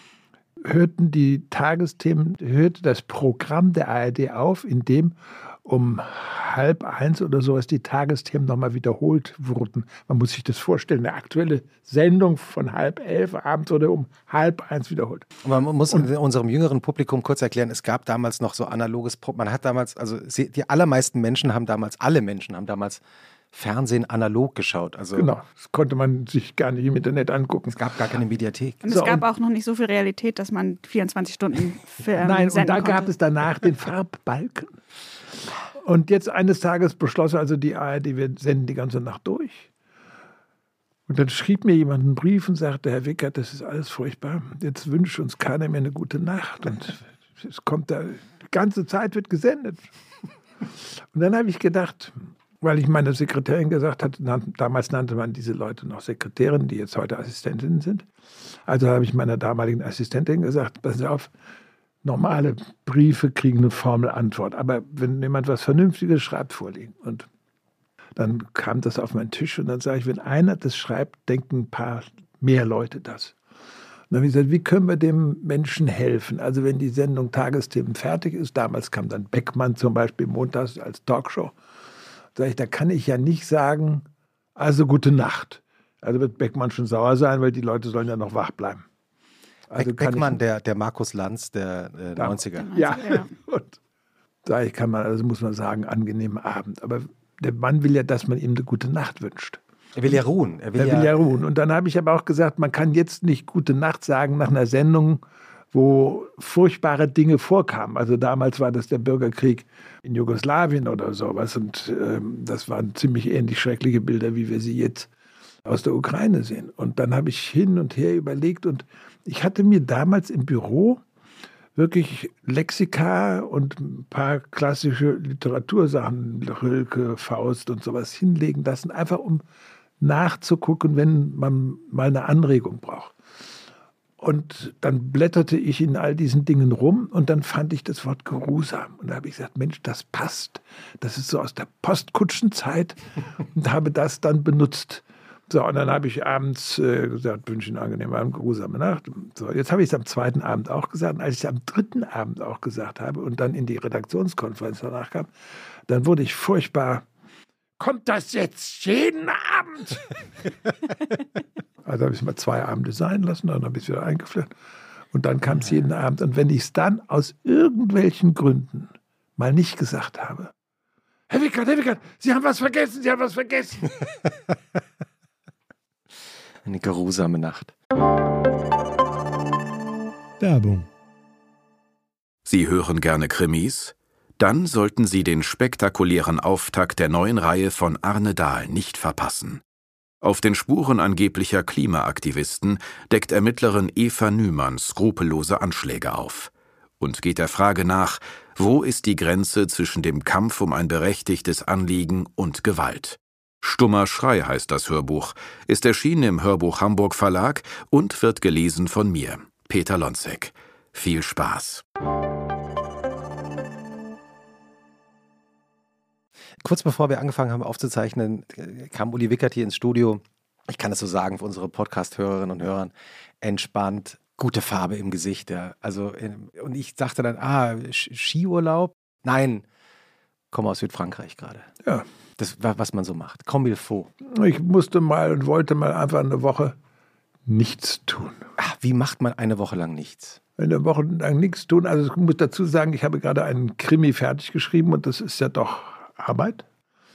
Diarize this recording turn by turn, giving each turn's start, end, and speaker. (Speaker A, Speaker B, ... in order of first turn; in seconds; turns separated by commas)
Speaker A: 0.6-15.3, Speaker B: 15.4-23.0, Speaker B: 23.5-25.3, Speaker A: 25.1-27.8, Speaker B: 27.7-28.8, Speaker C: 28.8-33.1, Speaker A: 28.9-29.2, Speaker A: 32.2-34.8, Speaker A: 35.7-39.7, Speaker A: 41.1-49.8, Speaker A: 51.1-58.1, Speaker A: 58.7-61.3, Speaker A: 62.0-67.3, Speaker A: 68.2-73.3, Speaker A: 74.1-81.5, Speaker A: 82.4-84.0, Speaker A: 84.6-88.8, Speaker A: 89.7-90.4, Speaker B: 89.8-92.7, Speaker A: 92.2-93.8, Speaker C: 92.6-93.3, Speaker A: 94.5-100.2, Speaker B: 100.0-101.2, Speaker A: 100.8-105.2, Speaker A: 105.7-115.1, Speaker A: 115.7-121.0, Speaker A: 121.8-129.4, Speaker A: 130.0-133.1, Speaker A: 134.2-143.0, Speaker A: 143.6-155.3, Speaker A: 155.9-157.1, Speaker A: 157.8-160.2, Speaker A: 161.8-164.5, Speaker A: 165.1-170.5, Speaker A: 171.3-174.0, Speaker B: 176.7-177.7, Speaker A: 180.5-180.8, Speaker D: 182.4-189.6, Speaker D: 190.2-211.8, Speaker B: 216.6-229.7, Speaker B: 230.5-231.7, Speaker B: 232.4-234.1, Speaker A: 234.2-236.8, Speaker A: 237.5-238.4, Speaker B: 238.6-240.4, Speaker A: 240.6-246.6